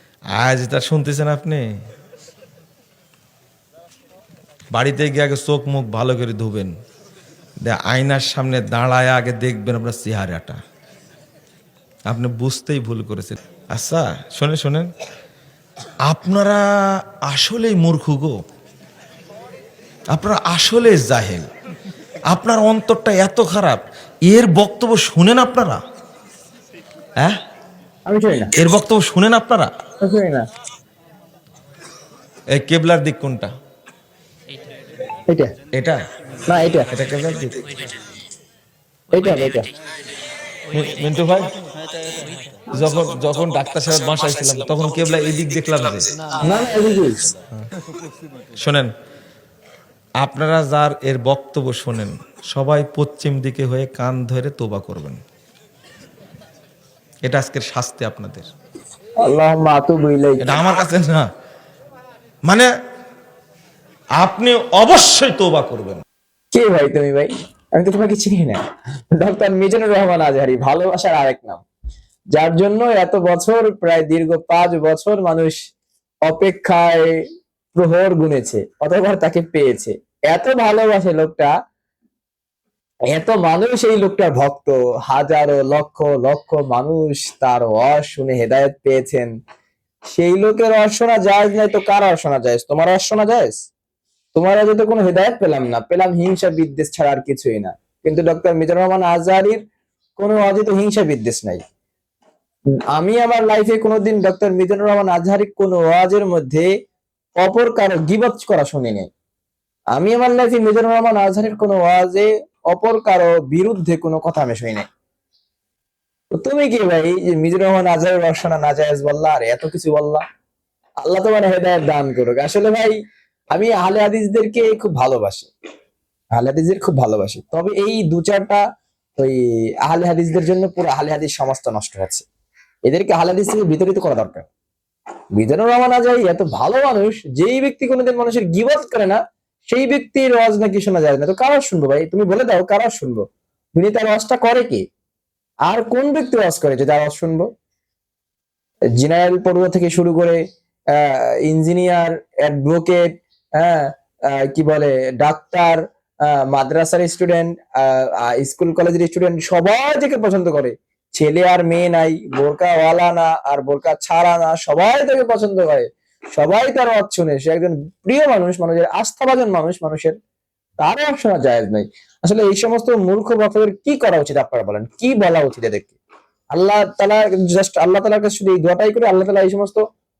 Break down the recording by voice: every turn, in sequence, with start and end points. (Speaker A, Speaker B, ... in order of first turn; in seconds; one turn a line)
Speaker A: 0.3-1.6
Speaker A: 4.7-6.7
Speaker A: 7.6-10.6
Speaker A: 12.1-14.9
Speaker A: 16.1-16.6
Speaker A: 17.2-18.4
Speaker A: 20.1-21.5
Speaker A: 22.3-25.8
Speaker B: 28.1-28.5
Speaker A: 28.6-29.7
Speaker B: 30.0-30.4
Speaker A: 32.5-33.5
Speaker B: 35.3-35.5
Speaker A: 35.7-36.0
Speaker B: 36.5-36.9
Speaker A: 36.9-37.6
Speaker B: 39.1-39.7
Speaker A: 40.7-41.5
Speaker A: 42.7-46.1
Speaker B: 46.4-47.2
Speaker A: 48.6-48.9
Speaker A: 50.2-55.2
Speaker A: 57.2-58.5
Speaker B: 59.2-60.6
Speaker A: 60.4-61.2
Speaker A: 64.2-66.0
Speaker B: 66.5-68.6
Speaker B: 69.1-71.6
Speaker B: 72.3-75.6
Speaker B: 76.2-77.2
Speaker B: 77.7-81.5
Speaker B: 83.1-89.3
Speaker B: 90.1-93.5
Speaker B: 94.3-99.6
Speaker B: 100.2-101.6
Speaker B: 102.9-106.7
Speaker B: 107.4-109.1
Speaker B: 109.9-114.8
Speaker B: 116.3-120.2
Speaker B: 121.0-123.0
Speaker B: 123.5-125.5
Speaker B: 126.3-128.6
Speaker B: 129.2-132.2
Speaker B: 132.8-134.5
Speaker B: 135.3-143.2
Speaker B: 143.7-144.8
Speaker B: 145.7-147.5
Speaker B: 148.9-150.4
Speaker B: 150.9-153.1
Speaker B: 153.6-170.1
Speaker B: 170.8-176.0
Speaker B: 176.5-179.8